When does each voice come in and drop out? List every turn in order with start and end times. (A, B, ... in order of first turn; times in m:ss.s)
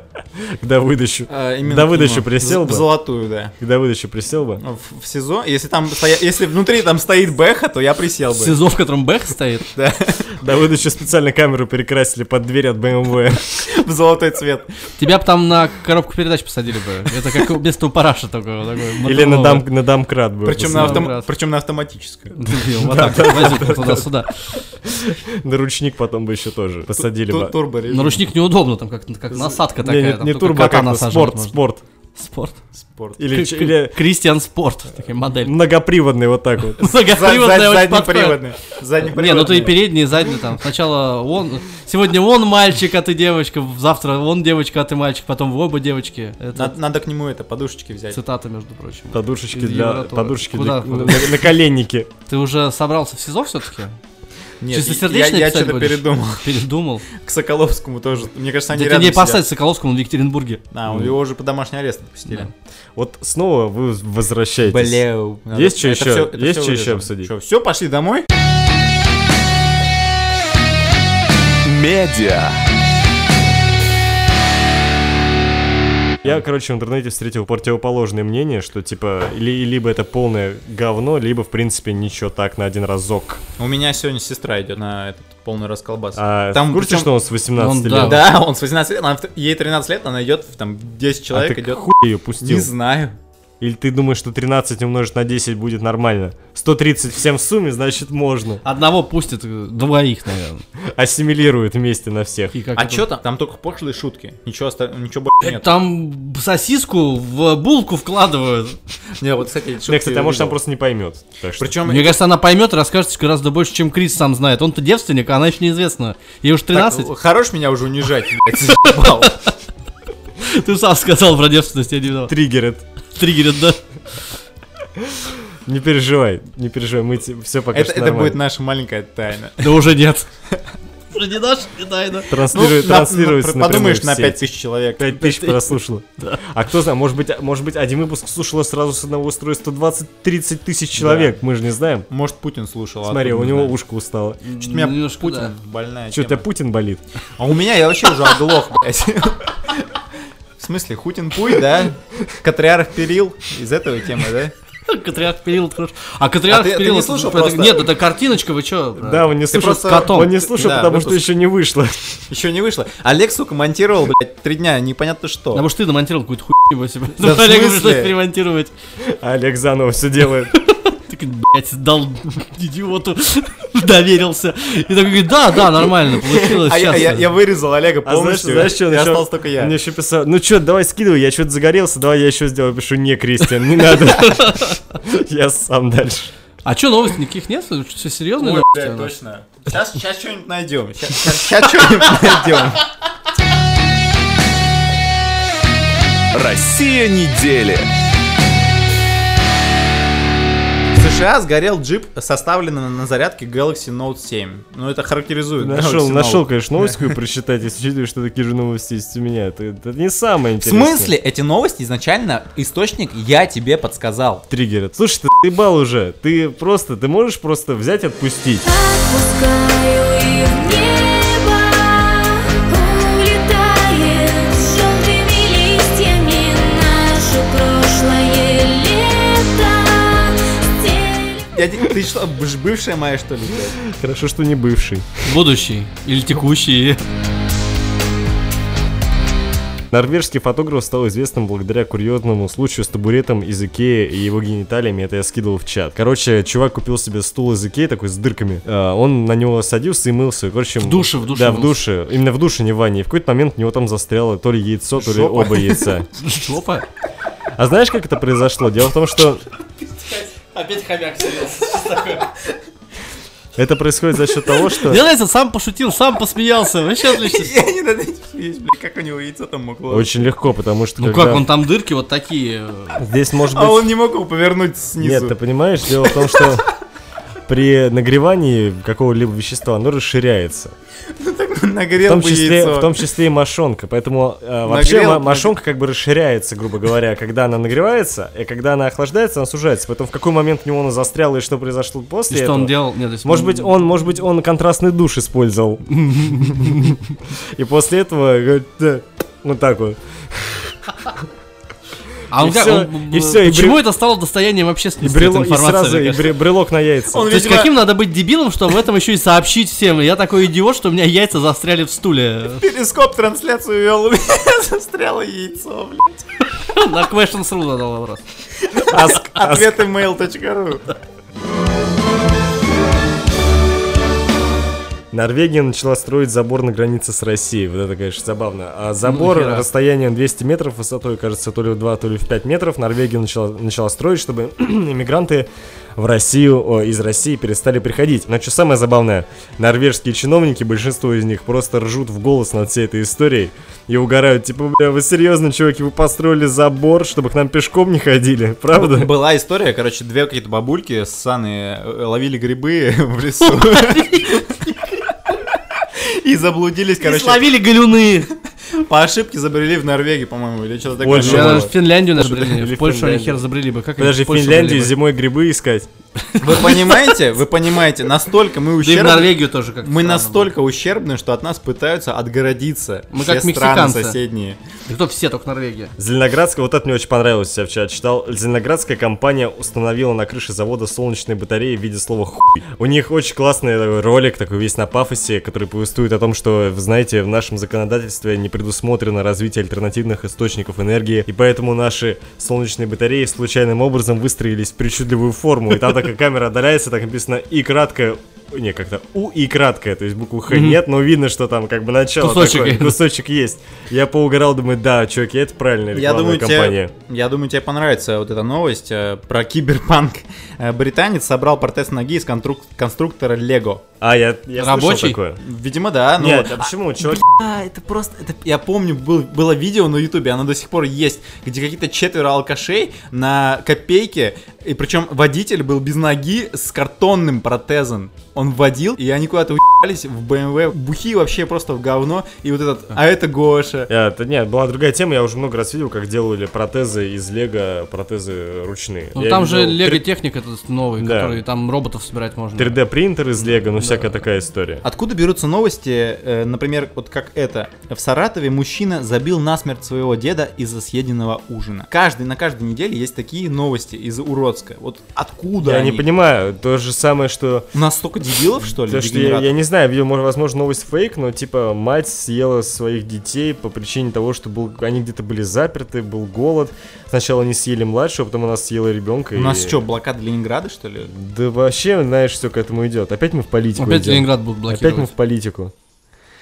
0:00.4-0:02.9 A
0:01.3-0:03.5 B
0:03.6-0:04.6 A
0:04.6-0:08.6 B
0:08.3-0:09.7 C
0:09.7-0:10.4 B
0:10.3-0:13.4 A
0:13.6-0:14.7 B
0:15.0-0:19.7 C
0:19.0-0:21.1 A
0:20.4-0:22.4 B
0:20.6-0:21.3 C
0:22.4-0:24.6 C
0:22.8-0:27.5 A
0:27.0-0:28.2 B
0:27.9-0:31.6 C
0:29.3-0:31.8 A
0:32.2-0:32.6 C
0:32.8-0:33.2 B
0:33.2-0:34.0 A
0:33.3-0:35.5 C
0:35.4-0:36.9 A
0:36.8-0:38.5 C
0:37.0-0:39.8 B
0:39.0-0:46.8 C
0:46.5-0:48.2 B
0:48.1-0:51.5 C
0:49.1-0:52.1 A
0:52.3-0:54.0 C
0:54.6-0:56.5 B
0:54.7-0:57.1 C
0:57.1-0:59.4 B
0:58.7-1:00.6 C
1:00.7-1:02.5 B
1:03.0-1:07.3 A
1:04.6-1:08.2 B
1:11.6-1:12.6 D
1:16.2-1:23.4 A
1:23.6-1:27.1 B
1:26.2-1:28.2 A
1:27.6-1:28.2 C
1:27.9-1:33.1 B
1:31.3-1:32.7 A
1:33.6-1:38.6 A
1:38.6-1:40.6 C
1:40.9-1:42.5 A
1:42.5-1:43.1 C
1:42.7-1:45.8 B
1:45.4-1:48.8 C
1:49.2-1:50.6 B
1:49.8-1:51.8 A
1:51.6-1:52.2 B
1:51.8-1:57.1 C
1:56.7-1:59.4 B
1:58.8-1:59.3 C
2:00.4-2:02.3 C
2:02.3-2:02.8 A
2:03.1-2:03.8 C
2:05.0-2:08.4 A
2:07.7-2:09.8 B
2:09.6-2:10.3 C
2:11.1-2:12.3 C
2:12.3-2:14.4 A
2:12.5-2:15.2 B
2:15.0-2:22.1 A
2:15.2-2:16.4 C
2:21.0-2:21.3 B
2:22.1-2:23.8 B
2:23.0-2:24.4 A
2:24.4-2:25.5 C
2:24.5-2:26.4 B
2:26.1-2:27.0 A
2:27.4-2:30.0 B
2:30.6-2:34.5 B
2:34.9-2:40.8 C
2:36.5-2:37.9 B
2:39.0-2:42.2 A
2:39.5-2:41.2 B
2:42.3-2:45.6 B
2:45.5-2:48.7 C
2:47.2-2:48.1 B
2:49.0-2:50.5 A
2:50.5-2:57.3 C
2:56.4-2:59.7 B
2:58.0-3:06.3 A
3:04.3-3:04.7 C
3:06.6-3:09.1 C
3:08.4-3:12.9 B
3:16.3-3:17.9 D
3:20.9-3:27.0 B
3:25.6-3:31.1 A
3:30.6-3:34.4 B
3:34.5-3:38.6 A
3:38.6-3:51.5 E
3:51.5-3:53.8 B
3:53.8-3:55.2 A
3:55.2-3:57.0 C
3:59.9-4:16.1 A
4:10.8-4:11.8 C
4:15.1-4:16.8 C
4:17.6-4:19.4 A
4:20.0-4:22.4 C
4:23.6-4:25.0 A
4:24.6-4:27.5 C
4:27.1-4:30.1 B
4:29.9-4:31.4 A
4:31.0-4:33.0 C
4:33.0-4:33.9 A
4:33.5-4:35.4 B
4:35.0-4:36.7 A
4:36.0-4:36.5 B
4:37.4-4:40.7 A
4:41.1-4:42.9 B
4:42.0-5:00.8 A
4:44.6-4:45.5 B
4:52.3-4:53.7 C
4:56.0-4:56.9 C
5:02.3-5:06.4 C
5:02.3-5:03.8 A
5:05.0-5:07.3 A
5:07.1-5:07.7 B
5:07.3-5:12.6 C
5:12.6-5:16.2 B
5:16.6-5:18.2 C
5:18.7-5:20.9 B
5:18.8-5:19.8 A
5:25.1-5:49.1 A
5:29.0-5:29.6 C
5:48.7-5:54.6 B
5:53.7-5:54.0 C
5:55.9-5:57.5 B
5:57.0-5:58.3 C
5:58.7-6:01.7 B
6:01.0-6:03.4 A
6:01.0-6:04.9 C
6:04.0-6:05.9 A
6:06.3-6:07.1 C
6:06.4-6:14.6 B
6:08.8-6:10.5 C
6:13.1-6:14.2 C
6:14.8-6:15.9 C
6:16.0-6:46.9 A
6:40.5-6:40.8 C
6:42.2-6:43.0 C
6:45.9-6:53.8 B
6:54.0-6:55.4 A
6:54.6-6:55.2 C
6:55.4-7:13.9 B
6:56.2-6:57.2 A
7:13.9-7:20.0 A
7:19.1-7:22.8 C
7:21.0-7:21.4 A
7:22.6-7:24.8 A
7:24.8-7:36.0 B
7:35.6-7:37.7 A
7:37.7-7:39.6 B
7:38.6-7:49.8 A
7:49.3-7:51.1 B
7:51.1-7:55.7 A
7:53.8-7:55.1 C